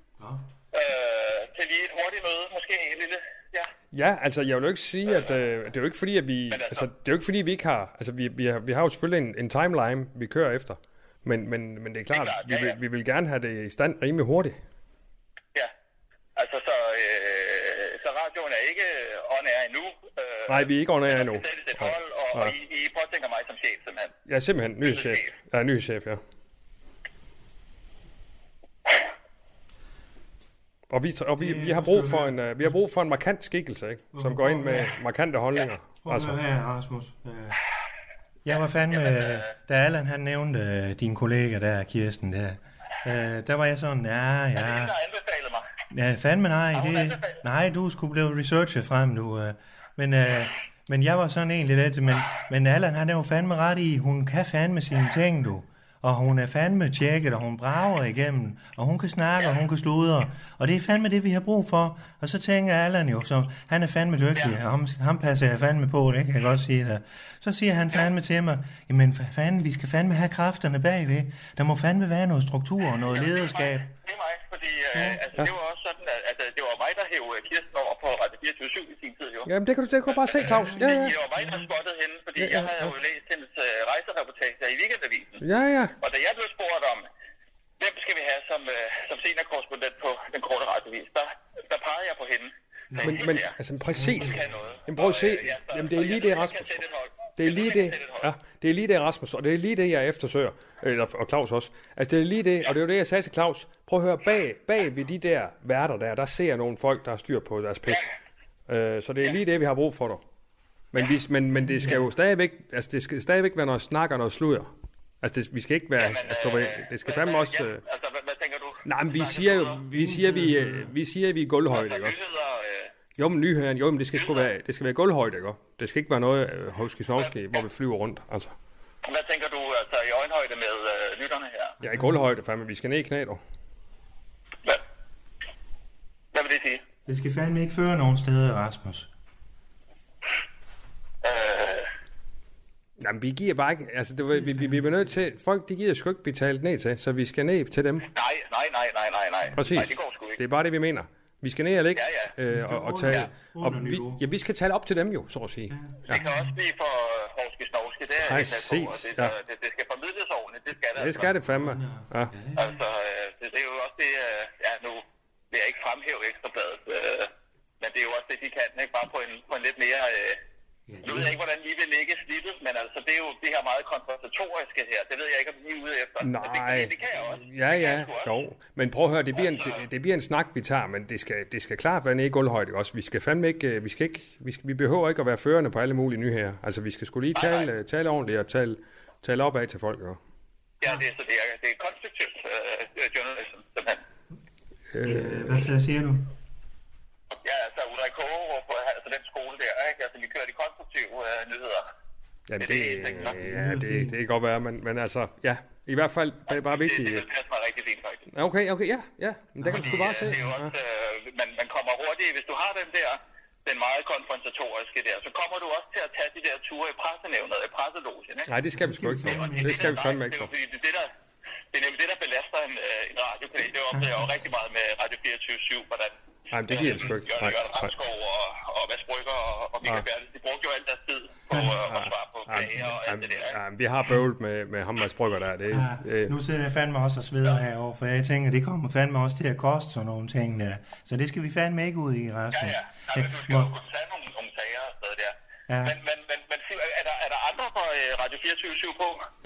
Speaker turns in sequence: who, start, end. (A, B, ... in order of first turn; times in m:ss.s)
0:00.7-0:03.7 A
0:03.9-0:14.6 B
0:06.5-0:06.9 A
0:12.1-0:12.8 A
0:16.4-0:24.1 A
0:20.5-0:22.5 B
0:24.3-0:26.2 B
0:24.8-0:25.3 A
0:30.9-0:36.4 B
0:31.4-0:32.7 C
0:34.1-0:34.9 C
0:36.0-0:37.6 C
0:38.4-0:44.9 C
0:39.0-0:39.5 A
0:44.6-0:45.7 A
0:45.9-1:13.9 C
0:46.7-0:47.4 A
1:13.1-1:19.5 A
1:14.9-1:15.2 C
1:19.4-1:21.2 B
1:20.1-1:25.4 A
1:20.4-1:21.7 C
1:22.4-1:22.9 B
1:25.4-1:26.0 B
1:26.0-1:27.1 A
1:27.8-1:33.5 A
1:32.9-1:33.2 C
1:33.0-1:36.8 B
1:33.9-1:34.8 C
1:34.2-1:38.3 A
1:37.4-1:48.1 B
1:48.7-1:50.2 B
1:50.9-1:54.7 B
1:51.6-1:52.1 C
1:55.2-1:57.8 B
1:56.0-1:59.8 A
1:58.8-2:02.2 B
1:59.9-2:00.9 C
2:01.7-2:02.9 A
2:03.2-2:08.5 B
2:04.1-2:04.5 A
2:09.0-2:11.8 A
2:11.8-2:13.4 B
2:11.9-2:12.2 C
2:16.3-2:16.8 A
2:17.0-2:19.1 C
2:21.2-2:21.9 A
2:23.0-2:28.1 B
2:24.3-2:25.2 C
2:28.1-2:30.4 A
2:29.6-2:36.2 B
2:31.9-2:32.3 A
2:32.4-2:34.2 C
2:35.7-2:36.5 C
2:36.1-2:41.3 A
2:38.2-2:39.3 B
2:41.0-2:42.3 B
2:41.1-2:42.8 C
2:42.6-2:50.4 A
2:50.9-2:51.4 C
2:51.0-2:58.4 A
2:56.2-3:10.2 B
2:59.4-2:59.8 A
3:07.3-3:07.7 A
3:10.8-3:14.0 A
3:14.9-3:15.7 B
3:15.0-3:16.3 C
3:17.4-3:21.9 A
3:22.5-3:27.2 B
3:22.6-3:23.4 A
3:23.2-3:24.2 C
3:26.5-3:28.3 A
3:28.3-3:30.7 B
3:29.6-3:30.4 C
3:29.7-3:38.5 A
3:38.5-3:40.5 B
3:38.8-3:40.0 C
3:39.2-3:41.1 A
3:41.7-3:46.1 A
3:46.5-3:47.9 B
3:46.7-3:53.6 A
3:51.8-3:56.3 B
3:55.7-4:03.7 C
4:02.5-4:09.2 A
4:05.7-4:06.0 C